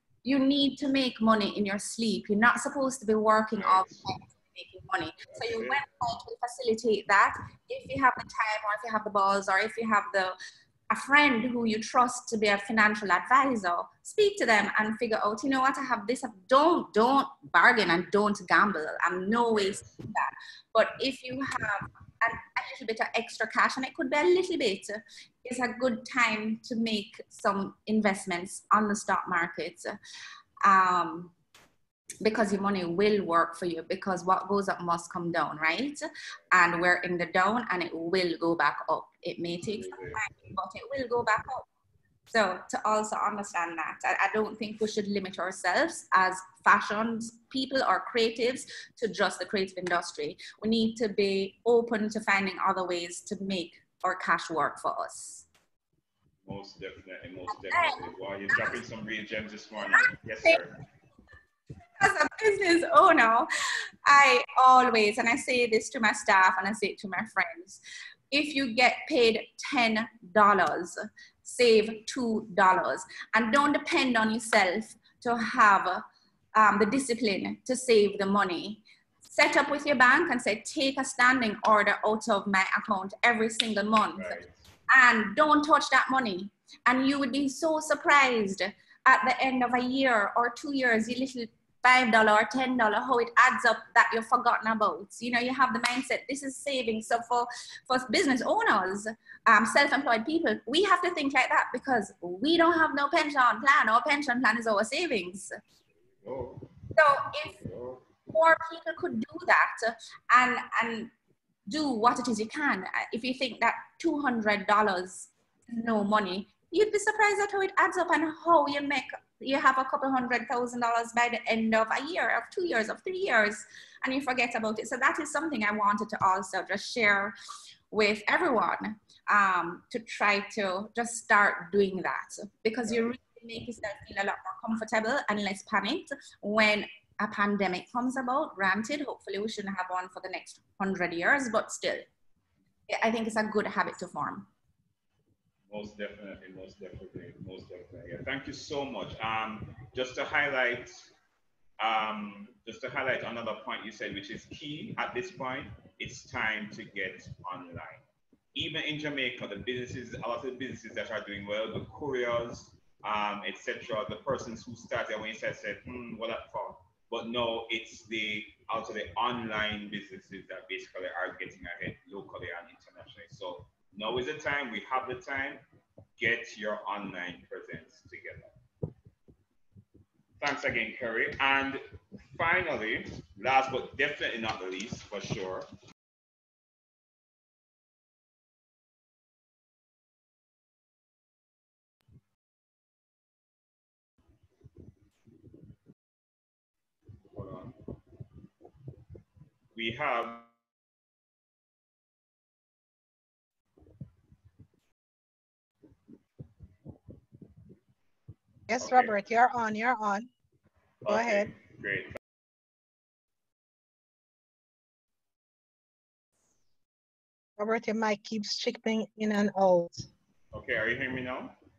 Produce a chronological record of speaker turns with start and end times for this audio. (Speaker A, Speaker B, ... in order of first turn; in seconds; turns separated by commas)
Speaker A: 0.2-10.3, Speaker B: 3.6-4.1, Speaker B: 5.3-5.8, Speaker A: 10.9-29.9, Speaker B: 19.5-20.0, Speaker A: 30.6-31.3, Speaker A: 32.2-41.7, Speaker B: 39.7-40.3, Speaker A: 42.3-55.5, Speaker B: 56.5-60.8, Speaker A: 57.7-58.8, Speaker A: 59.8-60.6, Speaker A: 62.0-63.5, Speaker A: 64.1-105.6, Speaker B: 84.2-84.7, Speaker B: 106.2-106.8, Speaker A: 107.0-107.5, Speaker B: 107.4-108.1, Speaker A: 108.3-111.1, Speaker A: 111.7-127.3, Speaker A: 127.9-142.1, Speaker A: 142.9-144.5, Speaker B: 145.7-151.1, Speaker B: 151.8-158.0, Speaker B: 158.6-175.6, Speaker B: 176.2-178.6, Speaker B: 180.4-185.7, Speaker B: 197.3-197.8, Speaker B: 199.7-200.5, Speaker C: 208.7-210.3, Speaker B: 208.8-209.2, Speaker B: 211.0-212.2, Speaker C: 211.1-211.5, Speaker C: 217.6-220.1, Speaker B: 220.5-221.5